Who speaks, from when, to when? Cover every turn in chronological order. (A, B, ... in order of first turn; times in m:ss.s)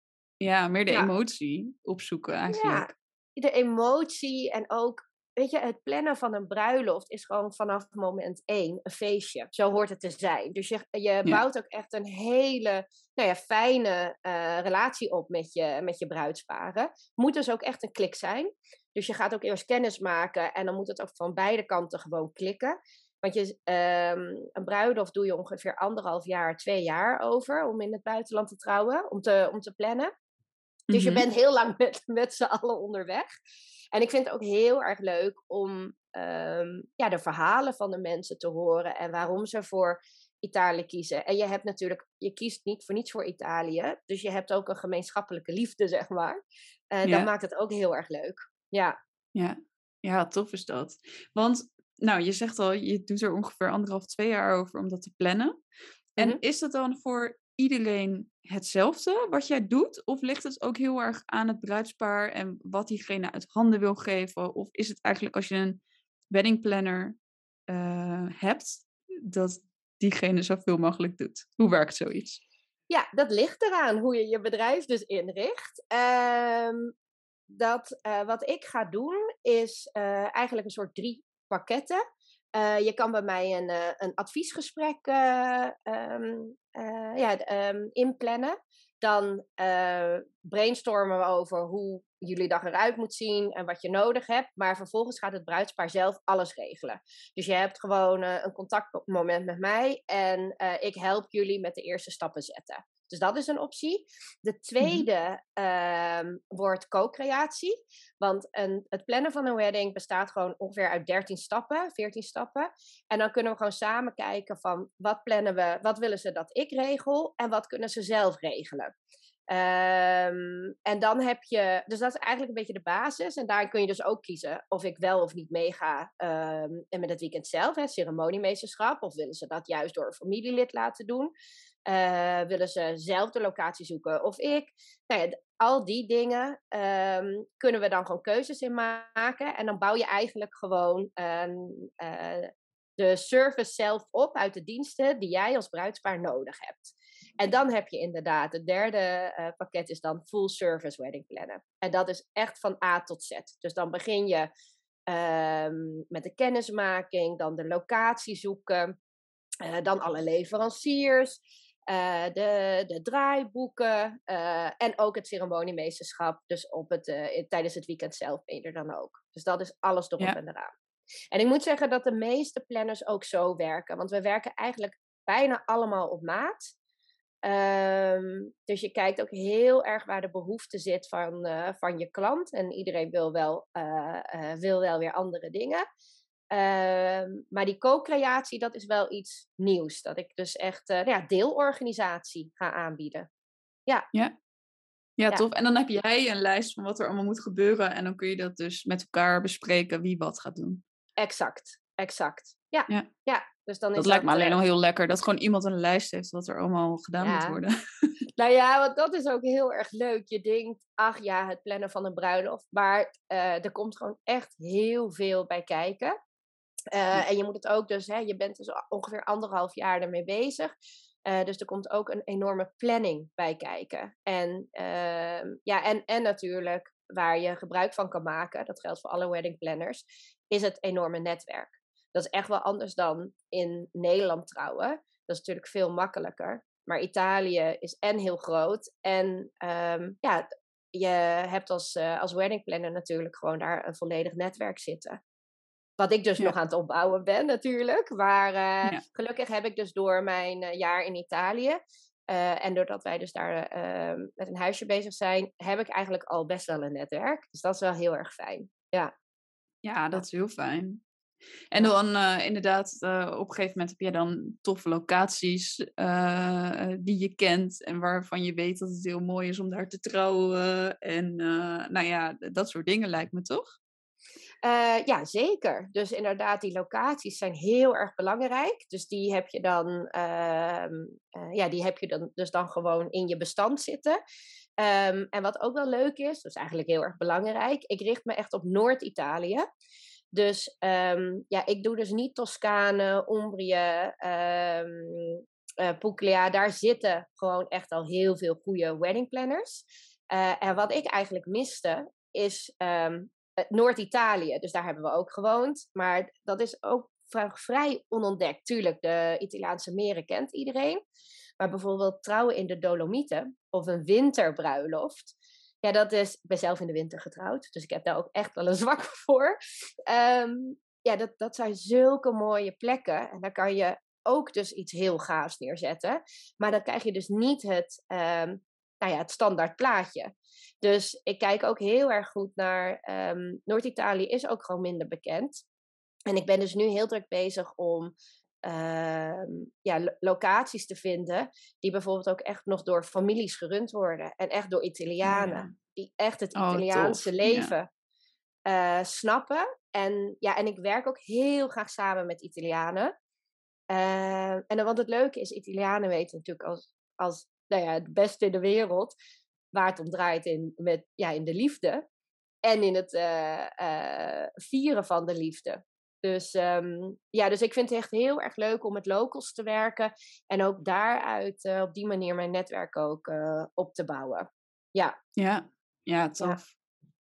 0:00.4-0:02.9 A
0:02.5-0:30.1 B
0:30.9-0:31.2 A
0:30.9-0:33.3 B
0:33.9-0:46.4 B
0:46.9-0:49.0 B
0:49.3-0:55.6 A
0:56.2-1:07.2 A
1:07.7-1:12.4 A
1:12.9-1:16.9 B
1:17.5-1:22.0 B
1:22.5-1:58.9 B
1:44.8-1:45.1 A
1:59.5-2:11.3 B
2:11.9-2:34.5 B
2:35.1-2:39.0 B
2:39.6-2:50.7 B
2:51.3-2:56.7 B
2:57.4-3:05.8 B
3:06.5-3:13.3 B
3:15.2-3:20.8 A
3:21.2-3:24.6 B
3:24.0-3:28.1 A
3:27.2-3:27.6 B
3:28.4-3:36.2 B
3:36.9-3:40.7 B
3:41.3-4:05.2 B
4:06.0-4:19.1 B
4:19.8-4:21.0 A
4:21.7-4:33.8 A
4:34.6-4:44.2 B
4:44.8-4:49.6 B
4:50.3-5:11.0 B
5:11.6-5:19.6 B
5:20.1-5:30.3 B
5:30.8-5:35.6 B
5:36.3-5:38.1 B
5:38.6-5:47.9 B
5:45.2-5:45.7 A
5:46.6-5:47.7 A
5:48.7-5:53.1 B
5:53.9-5:59.1 B
5:59.7-6:02.0 B
6:02.6-6:15.2 B
6:15.4-6:16.7 A